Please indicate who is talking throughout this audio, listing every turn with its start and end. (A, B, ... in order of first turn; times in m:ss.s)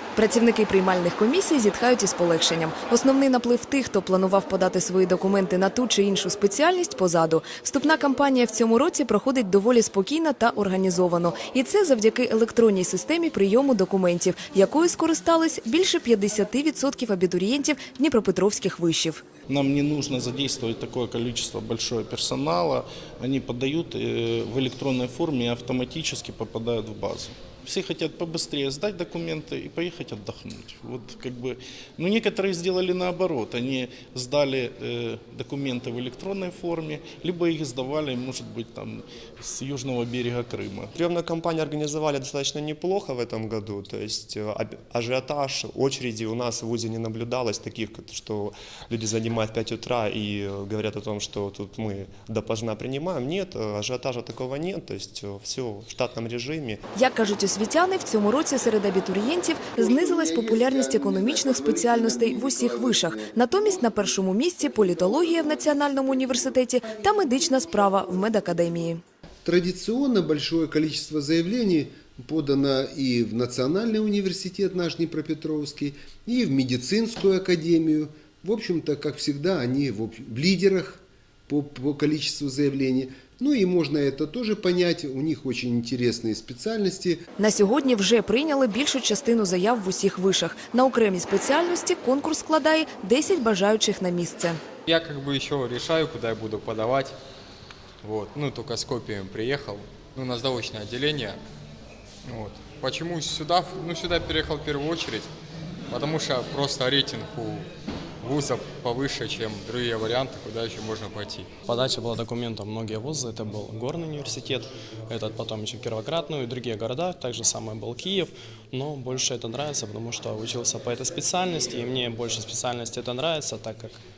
0:00.1-0:19.2 A
0:19.5-0:40.9 B
0:41.0-0:56.8 C
0:56.9-1:09.0 A
0:59.8-1:04.1 D
1:04.6-1:06.5 D
1:09.4-1:27.2 D
1:27.4-1:34.6 A
1:34.8-1:37.2 E
1:38.0-1:41.4 E
1:42.2-1:45.3 E
1:45.9-1:47.7 E
1:48.2-1:51.5 E
1:51.6-2:04.0 F